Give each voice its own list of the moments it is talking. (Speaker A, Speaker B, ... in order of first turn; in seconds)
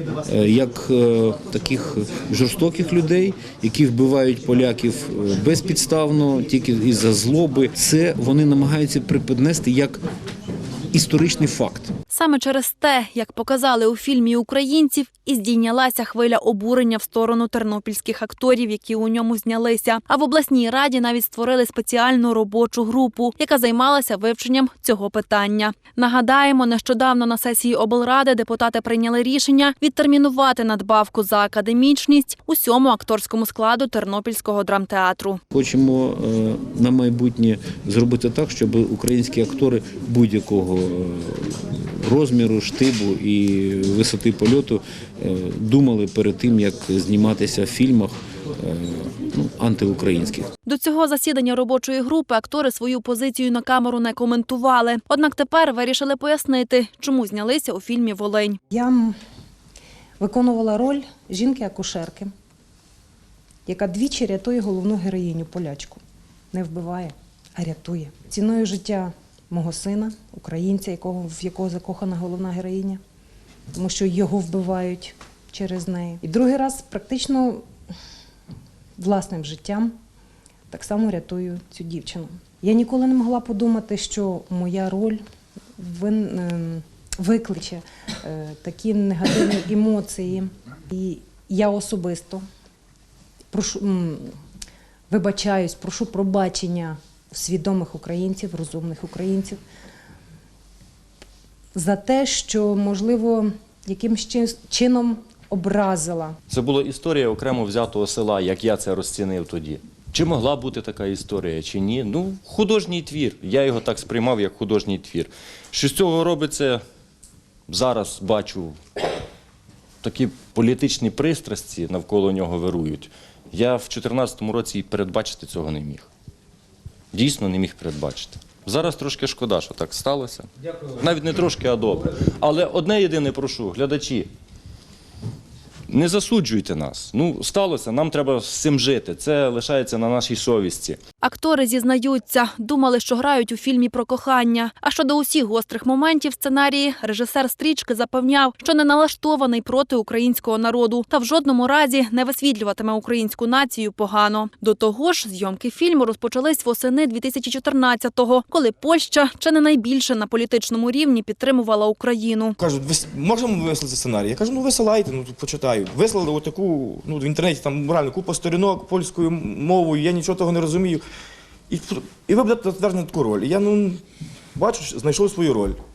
Speaker A: 0.2-10.0, 10.9-11.9, 35.5-50.5
Speaker B: 12.1-35.4, 50.6-58.6, 141.2-162.6
Speaker C: 58.7-59.1, 60.2-62.3, 63.6-66.0, 66.5-73.0, 73.7-77.6, 79.0-79.9, 80.7-85.2, 85.8-92.4, 93.5-94.3, 95.1-99.6, 101.7-106.3
Speaker D: 106.5-116.8, 117.7-118.8, 120.0-126.1, 127.1-134.3, 135.9-141.0
Speaker E: 162.6-171.0, 171.7-174.0, 174.5-175.8